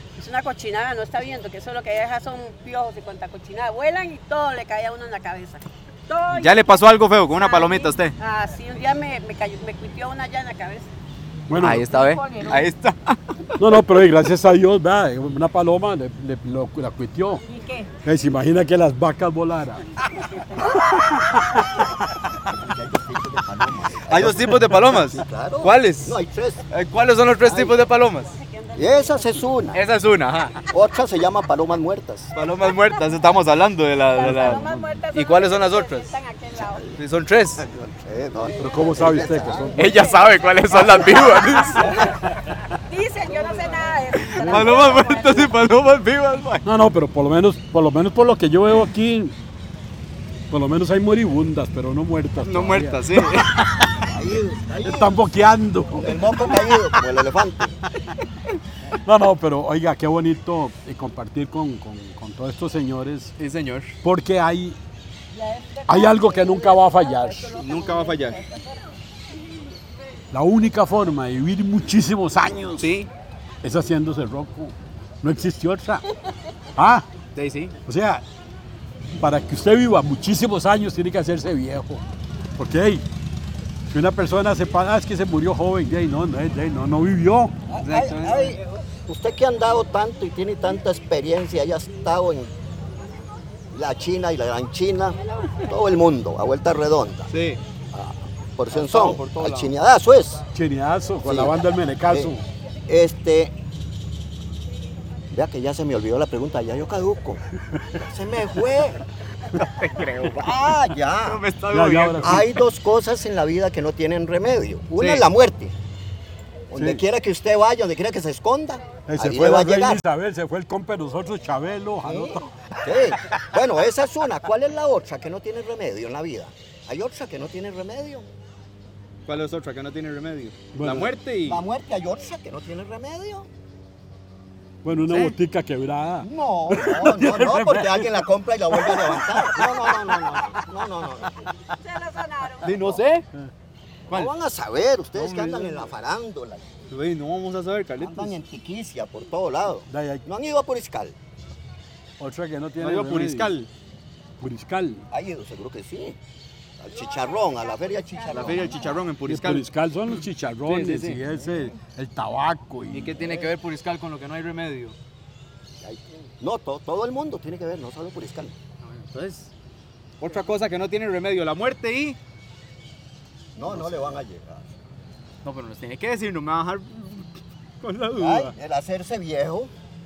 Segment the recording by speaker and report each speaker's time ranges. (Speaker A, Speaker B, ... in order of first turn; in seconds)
Speaker A: 0.2-6.7, 7.3-10.9, 11.9-12.7, 17.5-17.9, 20.1-21.4, 28.2-29.7, 32.7-33.1, 34.1-36.9, 38.4-42.1, 42.7-45.5, 65.3-68.8, 95.4-95.7, 141.8-142.9, 156.9-159.1
Speaker B: 6.3-8.2, 11.6-13.6, 24.1-26.2, 26.7-28.4, 29.7-30.6, 32.3-36.1, 37.0-37.6, 39.8-42.1, 44.2-46.6, 52.4-53.9, 63.4-64.0, 67.5-68.4, 72.8-73.1, 77.3-77.7, 87.8-88.6, 97.3-97.6, 98.7-99.7, 109.5-110.6, 111.2-112.5, 114.9-115.2, 129.3-131.6, 135.1-135.3, 142.6-143.2, 145.1-145.9, 146.9-148.3, 152.8-153.7, 158.3-159.7, 160.7-161.2, 162.9-164.9, 168.8-169.5, 170.2-172.2, 173.7-174.2, 175.4-177.3, 177.8-178.5
Speaker C: 11.5-11.9, 13.6-17.4, 18.0-19.9, 21.1-21.6, 34.2-35.0, 38.5-40.0, 44.4-44.7, 46.6-49.3, 50.5-56.6, 59.0-63.3, 64.0-64.8, 65.9-67.6, 70.3-72.9, 73.6-76.0, 76.8-77.0, 77.8-78.2, 79.2-82.0, 82.6-83.0, 83.9-87.5, 100.5-102.4, 107.7-108.0, 111.7-112.5, 116.8-117.0, 119.1-122.5, 130.7-131.2, 134.8-140.4, 149.9-150.2, 152.2-153.6, 154.4-155.0, 159.2-163.2
Speaker D: 22.5-26.6, 27.4-27.8, 28.8-29.8, 30.7-32.3, 36.5-36.9, 37.6-39.8, 41.8-42.0, 54.1-55.2, 55.9-57.7, 87.7-92.5, 93.7-97.3, 97.9-100.4, 101.2-102.3, 102.9-103.5, 105.3-107.4, 107.9-109.0, 110.3-111.4, 112.2-115.7, 116.7-120.0, 122.0-128.3, 131.4-133.5, 136.2-141.5, 142.7-142.9, 144.1-146.7, 148.0-151.2, 155.1-156.2, 156.8-159.0, 161.3-161.7, 163.1-163.5, 165.8-168.5, 173.6-174.7, 178.1-179.7